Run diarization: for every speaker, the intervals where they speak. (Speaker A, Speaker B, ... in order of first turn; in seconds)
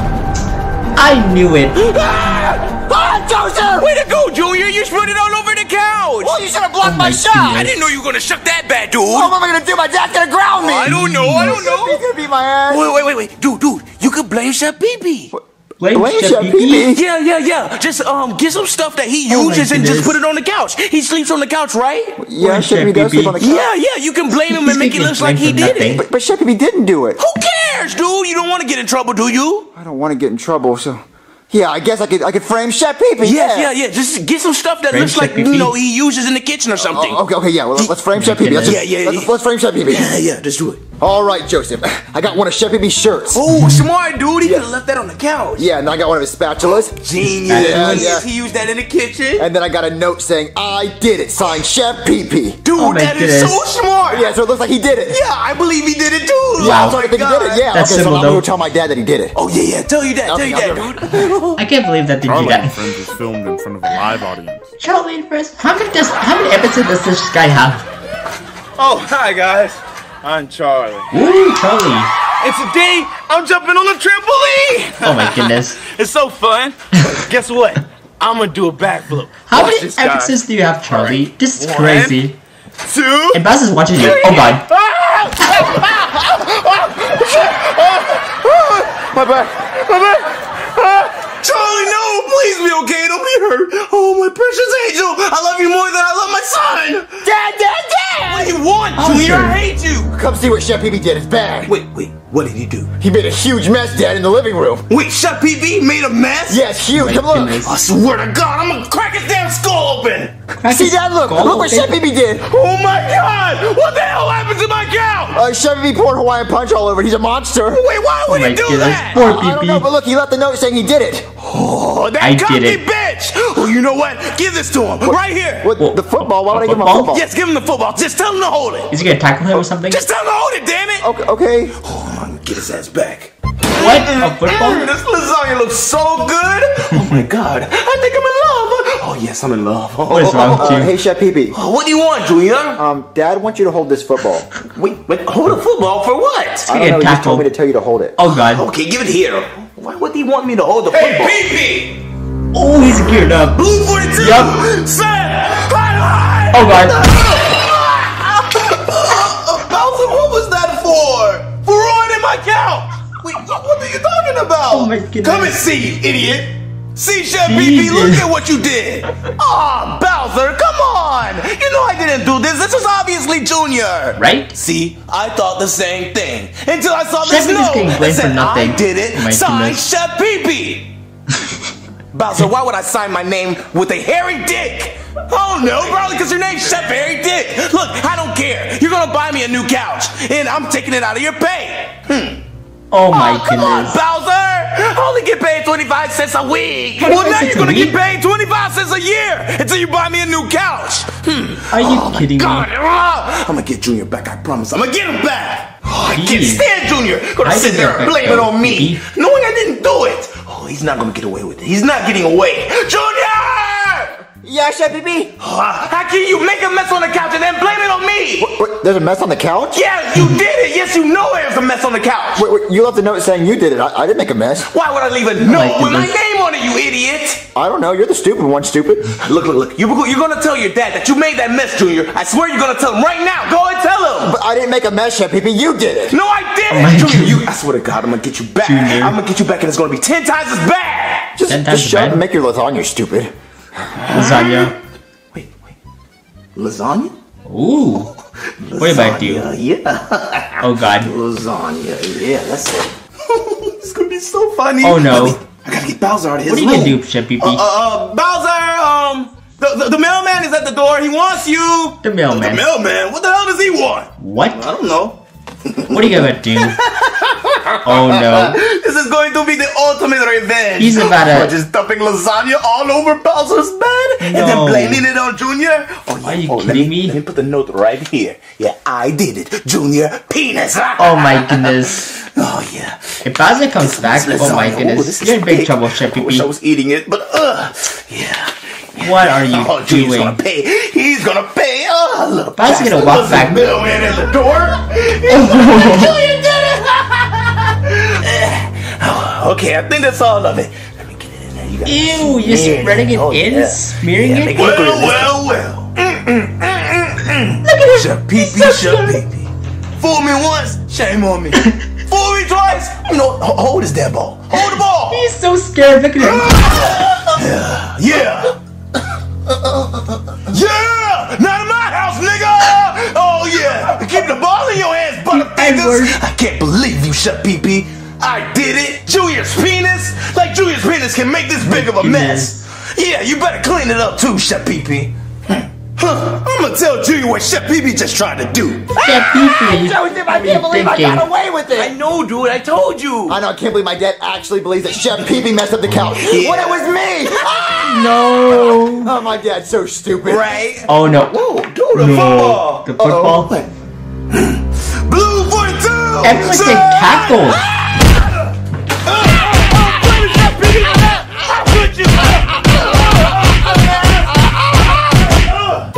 Speaker A: 1.0-1.8, 6.8-7.9, 10.8-11.6, 15.8-16.9, 19.3-20.2, 22.4-23.4, 24.3-26.1, 34.9-35.8, 38.1-38.8, 47.4-48.2, 52.8-53.6, 56.6-57.0, 57.7-58.5, 61.6-62.8, 64.8-67.8, 71.1-72.1, 75.0-75.8, 79.5-82.4, 83.3-84.7, 99.0-99.6, 106.9-107.8, 110.6-111.9, 118.3-119.9, 122.2-122.8, 125.8-127.2, 128.9-130.1, 133.7-134.9, 140.1-140.9, 146.7-147.5, 148.2-148.7, 151.0-151.3, 152.5-154.7, 156.5-157.1, 164.7-165.6, 167.4-168.3, 174.2-174.5, 177.2-179.8, 192.9-194.0, 197.0-198.0, 201.7-202.7, 206.1-206.7, 207.4-209.0, 220.2-220.4, 225.4-226.2, 236.7-237.5, 238.6-239.2, 241.5-242.2, 244.1-244.8, 247.5-248.1, 248.8-249.5, 250.6-251.1, 254.8-255.4, 256.4-257.6, 262.0-262.6, 264.2-264.7, 265.9-266.8, 267.8-268.6, 270.8-271.5, 274.2-275.1, 276.2-277.2, 281.0-282.1, 283.2-286.5, 289.0-290.4, 292.6-293.7, 295.3-296.2, 301.9-305.3, 307.6-309.2, 314.6-317.4, 325.3-326.2, 331.6-332.6, 339.0-341.3, 347.8-349.1, 350.9-351.4, 351.9-353.6, 356.2-357.6
Speaker B: 1.8-2.9, 3.6-6.4, 7.5-9.3, 10.6-12.1, 12.7-15.3, 16.9-22.2, 23.4-26.0, 27.2-29.7, 33.2-37.2, 38.6-39.3, 39.9-40.8, 43.3-45.7, 46.8-49.5, 52.6-54.3, 55.1-58.1, 59.4-61.6, 68.8-71.1, 72.4-80.3, 80.9-82.2, 82.8-83.4, 84.0-97.2, 98.2-100.1, 101.7-102.9, 104.9-106.6, 107.6-110.4, 112.4-115.4, 117.7-119.2, 121.4-125.7, 127.1-131.1, 131.8-140.9, 141.5-142.8, 144.6-146.7, 148.4-152.0, 153.5-180.9, 182.1-192.4, 193.1-214.2, 215.4-218.6, 219.7-222.5, 224.7-227.4, 229.2-234.3, 236.1-241.3, 244.0-244.7, 245.3-245.8, 246.6-247.1, 248.7-283.2, 283.8-315.3, 316.2-318.6, 319.7-339.6, 341.7-343.4, 346.0-348.8, 350.2-353.7, 354.3-358.5, 359.1-365.9
Speaker C: 2.8-3.9, 6.2-7.7, 9.1-12.9, 15.3-17.0, 22.2-23.7, 25.9-27.2, 29.8-33.7, 36.8-40.1, 41.0-43.5, 44.4-44.7, 45.6-48.3, 49.4-52.6, 54.1-55.2, 56.6-59.4, 60.3-61.2, 97.2-98.5, 100.1-101.7, 103.0-104.9, 106.5-107.6, 110.7-112.5, 115.3-117.8, 119.1-121.3, 125.6-127.3, 131.0-131.8, 140.3-141.6, 142.8-144.5, 146.7-148.2, 214.4-215.3, 218.4-219.8, 222.4-224.7, 227.6-229.1, 234.2-236.2, 241.3-243.3, 339.7-341.9, 343.3-348.2, 349.0-350.5
Speaker D: 62.2-64.7